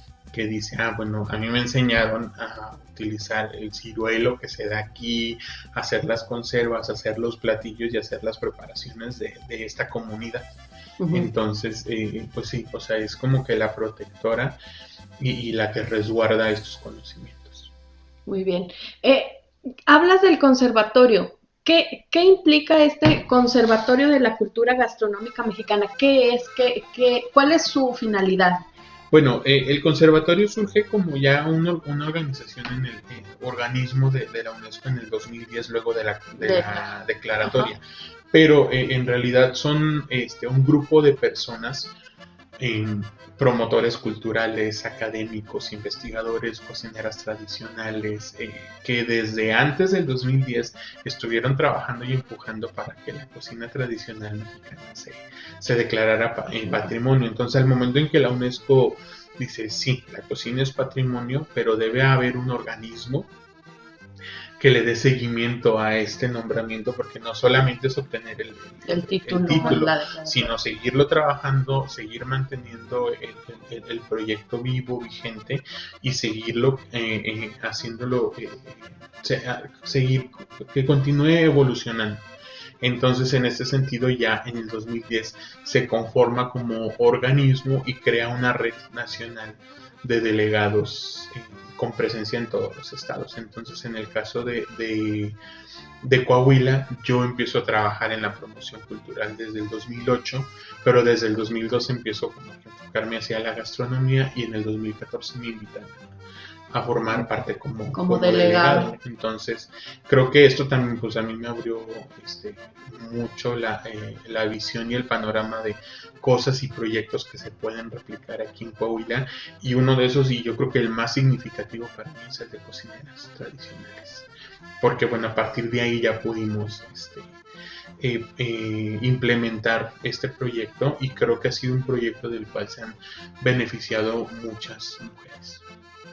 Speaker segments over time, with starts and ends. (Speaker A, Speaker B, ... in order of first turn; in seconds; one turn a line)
Speaker A: 0.3-10.5
Speaker B: 11.0-11.3
Speaker A: 11.1-14.6
Speaker A: 15.2-17.7
Speaker B: 18.3-28.6
Speaker A: 29.1-41.9
Speaker B: 36.4-37.7
Speaker A: 42.6-63.3
Speaker A: 64.6-82.2
Speaker B: 68.8-70.5
Speaker A: 82.8-95.4
Speaker A: 96.0-106.1
Speaker A: 106.7-124.3
Speaker B: 107.9-108.9
Speaker A: 124.8-127.4
Speaker A: 128.0-135.6